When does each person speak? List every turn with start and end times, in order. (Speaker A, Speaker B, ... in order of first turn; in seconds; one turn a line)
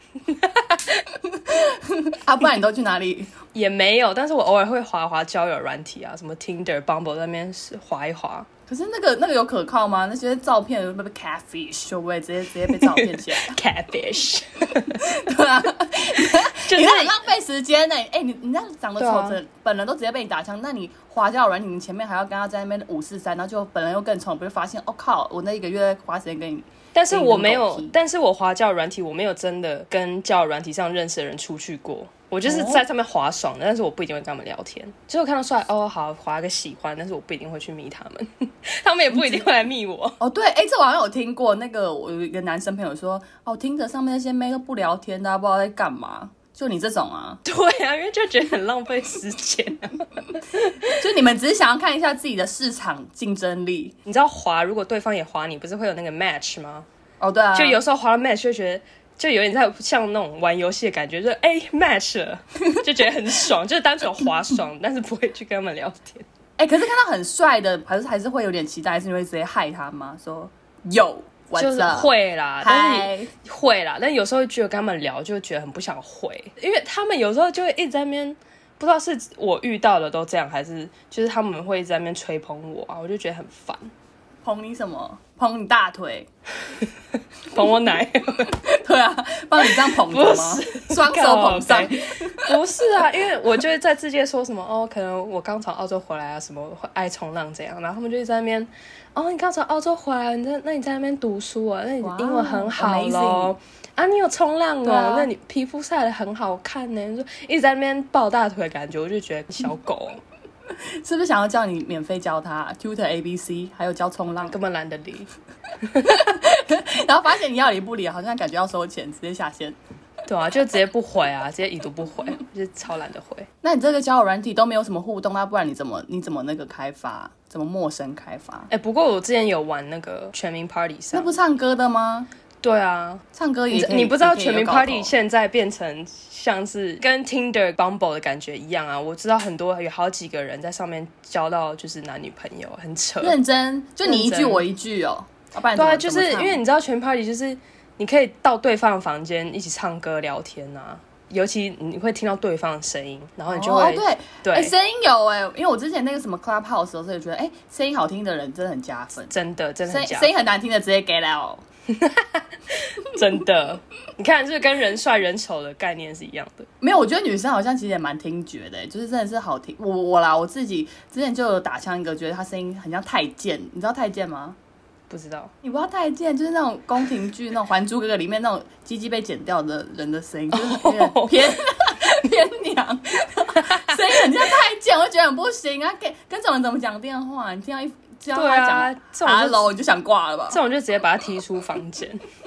Speaker A: 0.3-1.1
Speaker B: 1.3-3.3
Speaker A: 3.5-8.5
Speaker B: 8.7-13.6
Speaker A: 12.7-15.1
Speaker B: 14.9-27.9
Speaker A: 16.6-17.1
Speaker A: 19.0-19.4
Speaker A: 26.9-40.2
Speaker B: 32.4-32.8
Speaker B: 39.1-39.5
Speaker B: 40.2-47.4
Speaker A: 47.4-50.8
Speaker B: 50.8-53.9
Speaker A: 54.1-56.9
Speaker B: 57.2-57.8
Speaker A: 57.5-66.2
Speaker B: 66.6-72.1
Speaker A: 71.6-83.9
Speaker B: 72.6-73.3
Speaker B: 84.4-86.3
Speaker A: 87.4-88.6
Speaker B: 88.5-92.5
Speaker A: 89.6-110.2
Speaker B: 102.0-103.5
Speaker B: 104.8-105.3
Speaker B: 110.8-114.6
Speaker A: 114.5-115.3
Speaker A: 115.8-116.2
Speaker B: 116.0-119.8
Speaker A: 120.3-123.5
Speaker B: 123.6-128.7
Speaker A: 128.7-131.3
Speaker B: 131.1-132.3
Speaker A: 132.6-143.4
Speaker B: 133.3-135.1
Speaker B: 143.2-146.6
Speaker A: 144.0-144.6
Speaker A: 145.8-154.7
Speaker B: 153.5-159.3
Speaker A: 159.3-160.3
Speaker B: 159.9-161.6
Speaker A: 161.9-166.7
Speaker B: 166.8-174.6
Speaker A: 175.1-175.5
Speaker B: 175.6-190.6
Speaker A: 180.5-181.6
Speaker A: 183.5-184.3
Speaker A: 188.3-189.7
Speaker A: 190.5-192.2